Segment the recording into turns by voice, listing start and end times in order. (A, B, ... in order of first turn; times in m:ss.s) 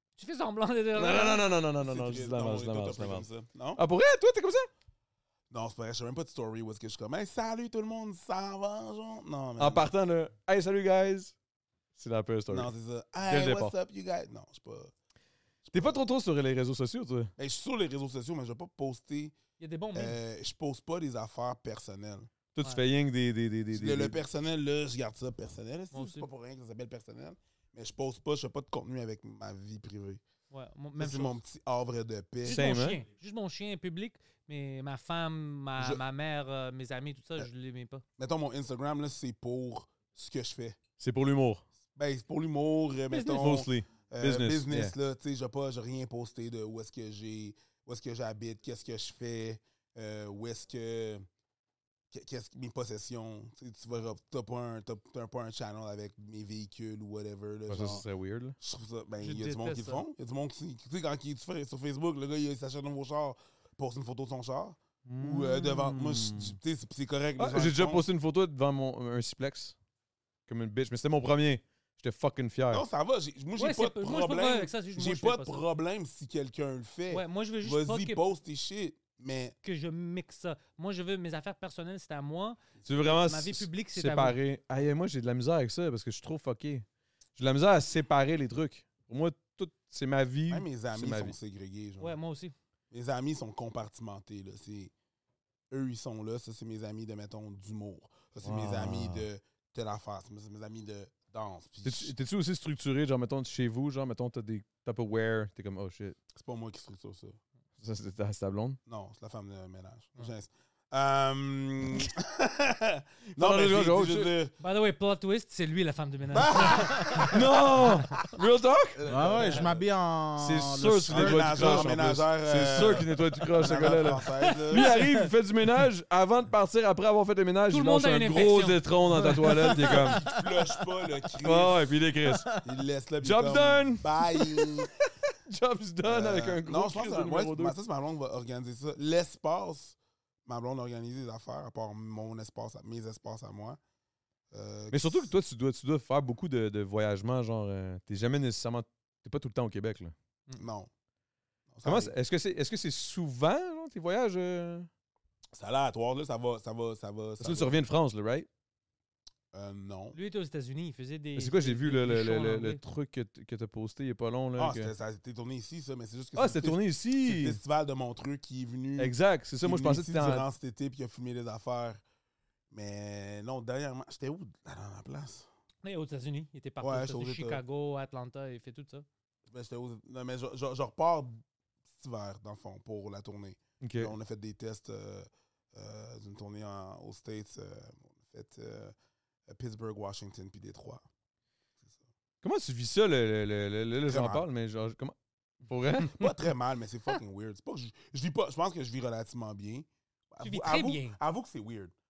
0:00.2-0:01.5 A
0:01.0-0:04.7 B
0:01.8-0:03.8 C
0:05.5-0:09.9 C
0:09.6-0:11.3 B
0:12.0-0:12.7 B
0:12.5-0:14.9 C
0:13.3-0:13.7 B
0:15.6-0:16.0 C
0:15.7-0:17.3 B
0:17.4-0:19.4 C
0:19.6-0:20.2 A
0:19.9-0:22.3 C
0:22.6-0:24.2 B
0:23.7-0:30.2 C
0:25.9-0:26.3 A
0:30.5-0:31.4 A
0:31.0-0:32.7 C
0:32.5-0:33.0 B
0:32.5-0:38.0 A
0:35.8-0:36.0 C
0:38.2-0:40.8 C
0:41.0-0:41.6 B
0:42.0-0:51.3 C
0:43.1-0:43.5 A
0:43.4-0:44.9 B
0:52.1-0:58.0 C
0:57.7-0:58.6 B
0:58.6-1:08.0 C
0:59.2-1:00.0 A
1:05.1-1:06.6 B
1:07.4-1:09.8 B
1:10.5-1:12.9 B
1:12.7-1:19.6 C
1:13.6-1:15.6 A
1:17.1-1:18.2 A
1:19.6-1:24.4 A
1:22.9-1:26.8 B
1:27.4-1:31.4 B
1:30.5-1:32.2 C
1:32.0-1:32.5 A
1:32.9-1:34.9 C
1:35.7-1:42.1 C
1:38.4-1:39.3 B
1:41.8-1:46.2 B
1:46.3-1:47.4 C
1:47.8-1:48.8 B
1:48.9-1:54.6 C
1:53.4-1:54.3 B
1:54.6-1:58.1 A
1:56.3-1:57.5 C
1:57.3-1:59.0 B
1:59.0-1:59.9 C
1:59.1-2:01.9 D
2:00.4-2:10.3 B
2:01.1-2:05.0 C
2:07.7-2:10.0 A
2:09.8-2:12.0 C
2:11.4-2:12.5 B
2:12.3-2:12.6 D
2:12.6-2:14.9 C
2:13.2-2:14.6 B
2:15.5-2:17.8 B
2:16.0-2:23.8 C
2:24.5-2:25.3 C
2:24.9-2:30.1 B
2:30.6-2:30.9 C
2:31.7-2:32.1 C
2:31.8-2:34.9 B
2:35.5-2:37.8 C
2:37.4-2:38.5 B
2:39.5-2:40.2 C
2:40.1-2:42.8 A
2:41.4-2:44.9 B
2:44.6-2:52.0 C
2:46.4-2:47.6 B
2:49.0-2:50.5 B
2:52.7-2:55.5 C
2:55.8-2:59.1 A
2:56.8-2:57.6 C
2:59.5-3:08.9 C
3:03.8-3:04.2 B
3:09.5-3:11.0 C
3:12.4-3:15.1 B
3:14.1-3:14.4 C
3:15.7-3:16.3 B
3:16.0-3:21.9 C
3:20.4-3:21.2 A